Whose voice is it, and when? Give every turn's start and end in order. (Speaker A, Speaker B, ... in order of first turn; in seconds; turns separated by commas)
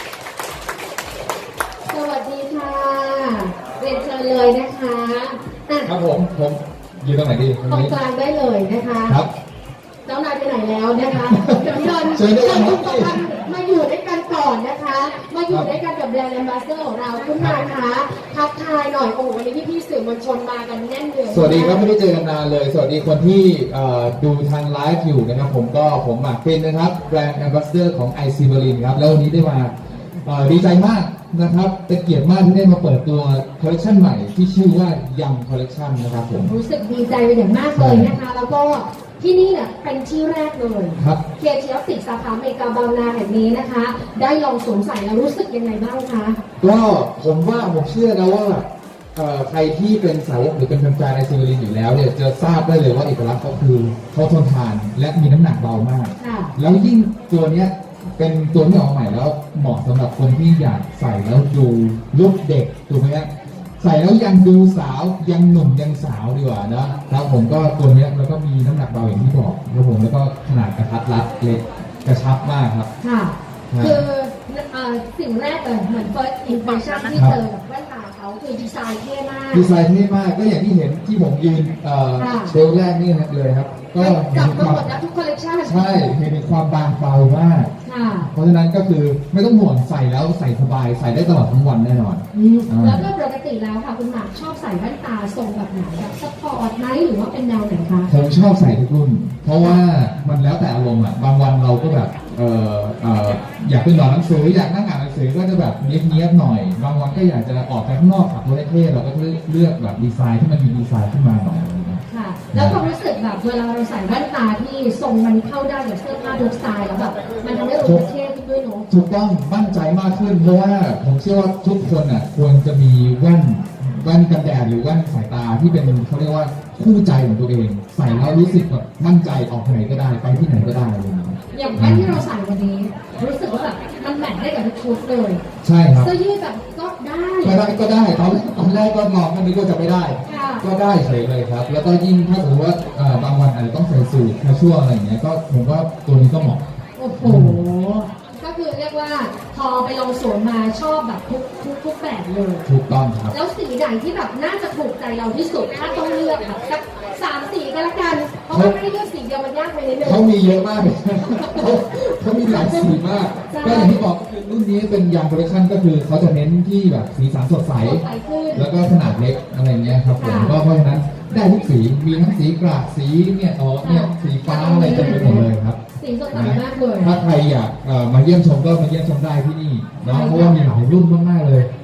Speaker A: 1.9-5.9, Speaker B: 5.8-7.9, Speaker A: 7.7-9.2, Speaker A: 10.1-21.8, Speaker B: 11.1-13.2, Speaker B: 17.4-17.6, Speaker B: 21.3-29.7, Speaker B: 30.2-36.5, Speaker A: 36.4-46.4, Speaker B: 37.7-38.1, Speaker B: 46.6-72.9, Speaker A: 56.2-56.5, Speaker A: 73.0-79.7, Speaker B: 73.7-74.0, Speaker B: 77.1-77.4, Speaker B: 79.5-84.9, Speaker A: 82.2-82.5, Speaker A: 84.0-86.1, Speaker B: 85.6-93.1, Speaker A: 87.8-88.3, Speaker A: 92.3-98.1, Speaker B: 98.1-112.8, Speaker A: 112.1-118.9, Speaker B: 117.8-118.1, Speaker B: 118.9-132.2, Speaker A: 128.0-128.4, Speaker A: 131.5-135.4, Speaker B: 135.6-136.1, Speaker A: 136.0-137.6, Speaker B: 137.4-146.6, Speaker A: 140.2-140.6, Speaker A: 147.0-152.6, Speaker B: 147.2-147.6, Speaker B: 152.7-153.3, Speaker A: 153.3-160.2, Speaker B: 158.5-158.8, Speaker B: 160.0-175.8, Speaker A: 161.2-161.7, Speaker A: 162.4-164.0, Speaker A: 167.8-168.7, Speaker A: 170.2-170.6, Speaker A: 173.8-177.2, Speaker B: 176.3-181.7, Speaker A: 180.0-180.6